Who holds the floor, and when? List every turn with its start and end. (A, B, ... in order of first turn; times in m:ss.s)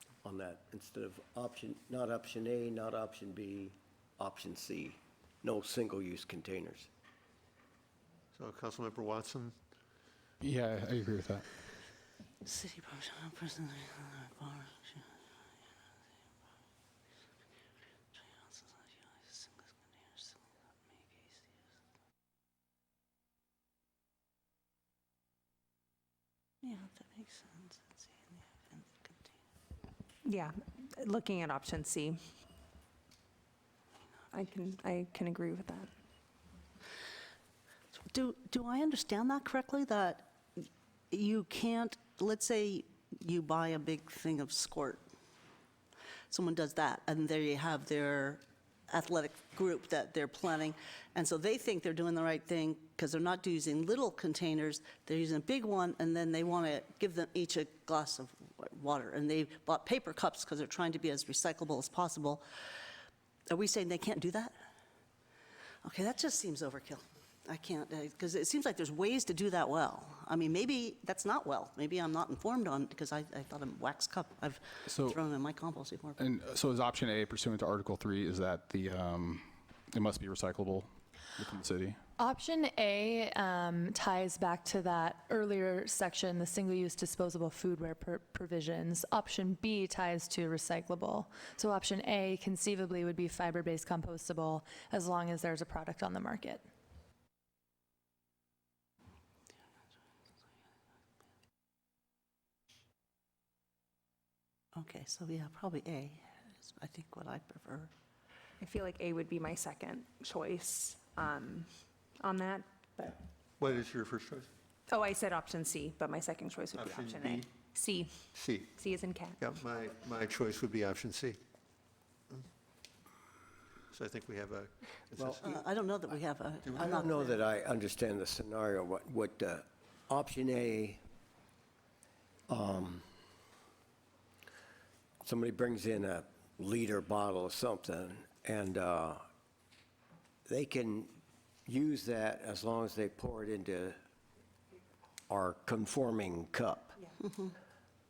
0:00.2-0:06.9 A
0:08.3-0:09.5 B
0:10.4-0:11.4 C
0:12.4-0:15.1 D
0:18.1-0:20.4 D
0:20.9-0:21.5 D
0:26.6-0:29.3 D
0:30.2-0:32.2 E
0:34.3-0:35.9 E
0:38.0-0:45.0 D
0:46.3-1:02.4 D
1:03.5-1:04.5 D
1:05.8-1:16.2 D
1:14.9-1:15.2 C
1:16.2-1:22.0 C
1:22.2-1:36.6 F
1:44.7-1:47.9 D
1:48.6-1:51.7 E
1:52.2-1:53.2 E
1:53.6-1:54.5 B
1:54.9-1:58.1 E
1:56.7-1:57.5 B
1:58.3-1:58.7 B
1:58.7-1:59.4 E
1:59.4-2:01.4 B
2:03.9-2:05.6 B
2:05.2-2:05.6 A
2:05.4-2:07.4 D
2:06.6-2:07.0 B
2:06.7-2:11.0 A
2:12.5-2:13.0 A
2:15.2-2:19.2 A
2:20.4-2:24.0 A
2:25.3-2:26.9 A